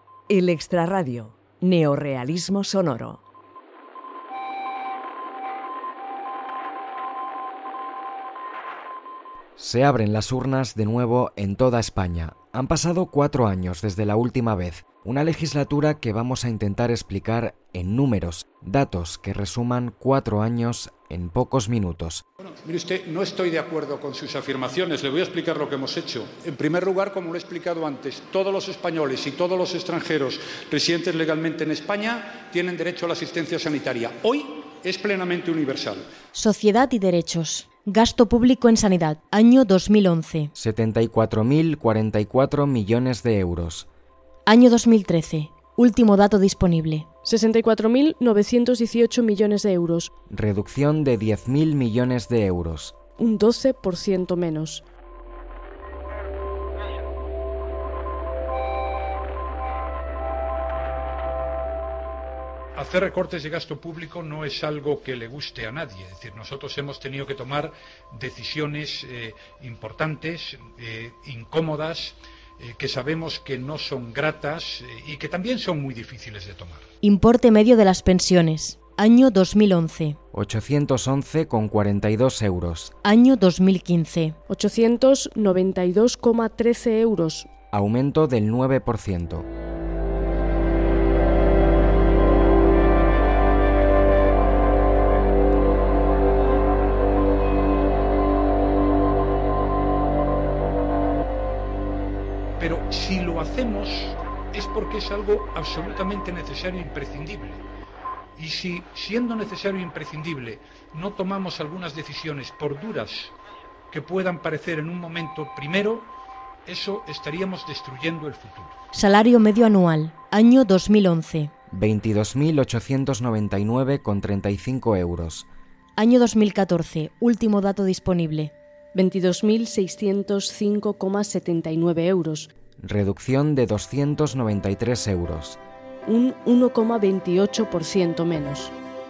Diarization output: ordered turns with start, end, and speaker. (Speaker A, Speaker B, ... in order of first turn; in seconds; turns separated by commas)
Speaker A: 0.3-3.2, Speaker B: 9.6-22.2, Speaker C: 22.6-36.0, Speaker D: 36.3-40.5, Speaker B: 40.5-43.9, Speaker D: 44.5-47.0, Speaker E: 47.2-50.1, Speaker B: 50.3-52.9, Speaker E: 53.2-54.8, Speaker C: 62.8-76.8, Speaker D: 77.0-80.2, Speaker B: 80.3-82.9, Speaker D: 83.0-84.3, Speaker E: 84.5-87.5, Speaker B: 87.7-89.5, Speaker C: 102.6-107.6, Speaker C: 108.4-113.3, Speaker C: 113.9-116.1, Speaker C: 116.7-118.7, Speaker D: 118.9-121.5, Speaker B: 121.7-125.5, Speaker D: 126.0-128.5, Speaker E: 128.9-132.5, Speaker B: 132.8-135.6, Speaker E: 136.0-138.7